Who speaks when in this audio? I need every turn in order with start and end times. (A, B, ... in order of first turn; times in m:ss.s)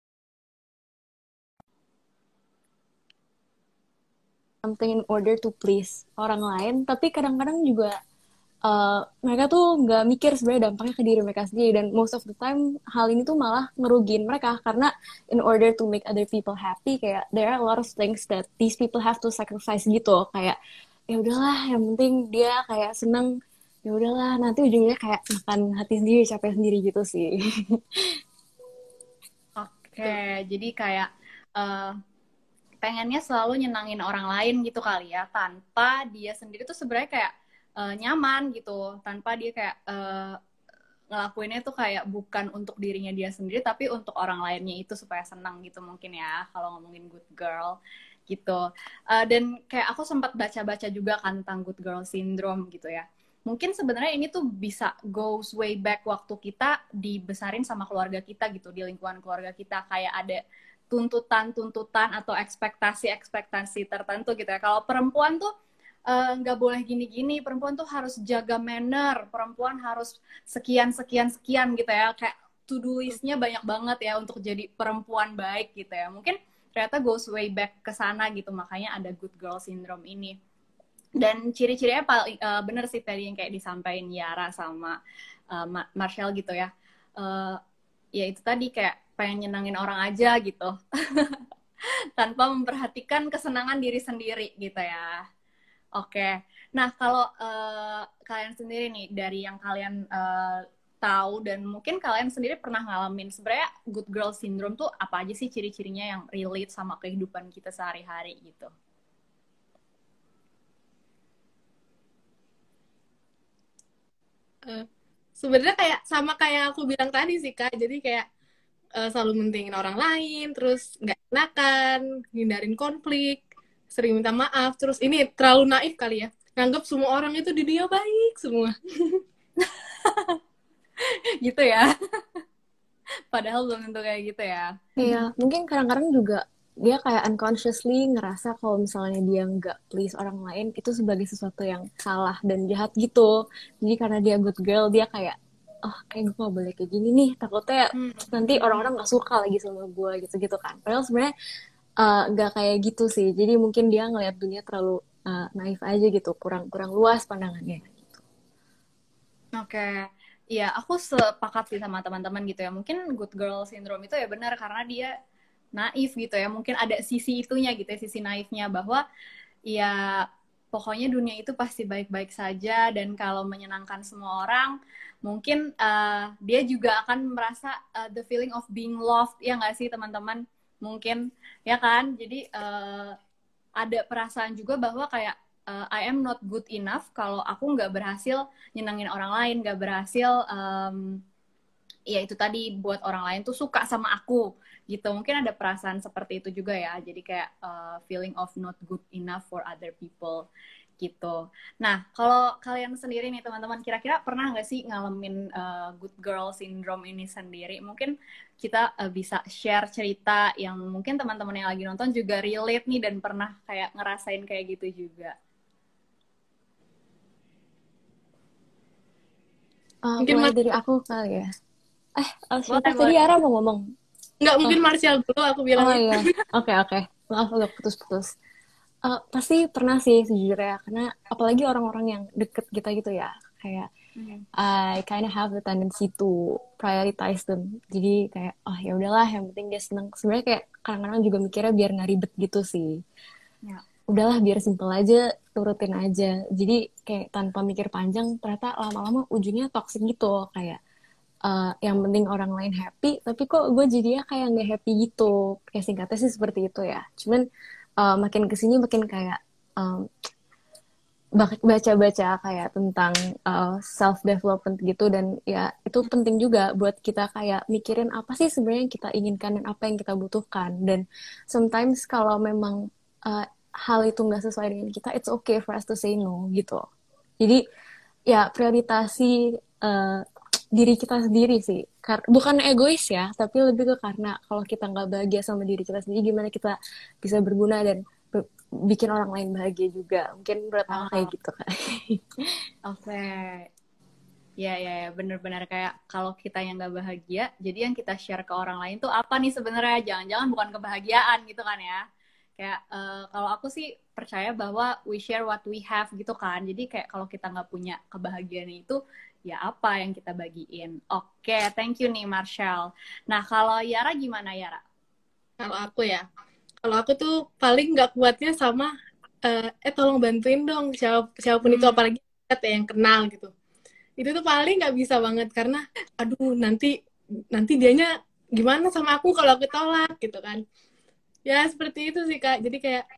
0:04.6-0:08.0 A
0:08.6-0:20.6 A
0:21.1-0:23.3 A
0:23.8-0:28.2 A
0:29.6-0:31.9 B
0:32.8-0:40.4 B
0:41.1-0:47.8 B
0:48.3-1:05.5 B
1:06.1-1:20.4 B
1:21.2-1:25.0 B
1:25.5-1:27.6 B
1:28.2-1:31.4 B
1:32.2-1:35.2 B
1:36.0-1:48.7 B
1:55.4-1:58.2 C
1:59.0-2:09.2 C
2:09.6-2:10.4 B
2:11.0-2:12.4 B
2:13.3-2:15.1 B
2:15.0-2:31.3 A
2:28.0-2:28.9 B
2:32.0-2:38.2 A
2:39.6-2:45.1 B
2:45.8-2:49.0 B
2:49.7-3:03.2 B
3:03.8-3:11.2 B
3:12.1-3:20.5 B
3:21.0-3:35.3 B
3:40.0-3:41.5 A
3:40.2-3:40.5 C
3:42.2-3:43.8 A
3:42.7-3:43.2 B
3:44.4-3:46.3 C
3:45.8-3:48.3 A
3:49.0-3:53.9 A
3:54.2-3:54.4 B
3:54.5-4:03.0 A
4:04.1-4:10.8 A
4:11.4-4:17.4 A
4:18.0-4:20.1 A
4:21.4-4:36.8 A
4:38.3-4:52.3 A
4:50.9-4:51.3 B
4:52.8-4:53.7 B
4:54.6-5:02.0 B
5:02.6-5:14.8 B
5:15.6-5:16.2 C
5:16.8-5:18.9 C
5:19.4-5:23.5 C
5:21.6-5:22.0 B
5:24.2-5:26.9 C
5:27.5-5:30.6 C
5:31.4-5:33.0 C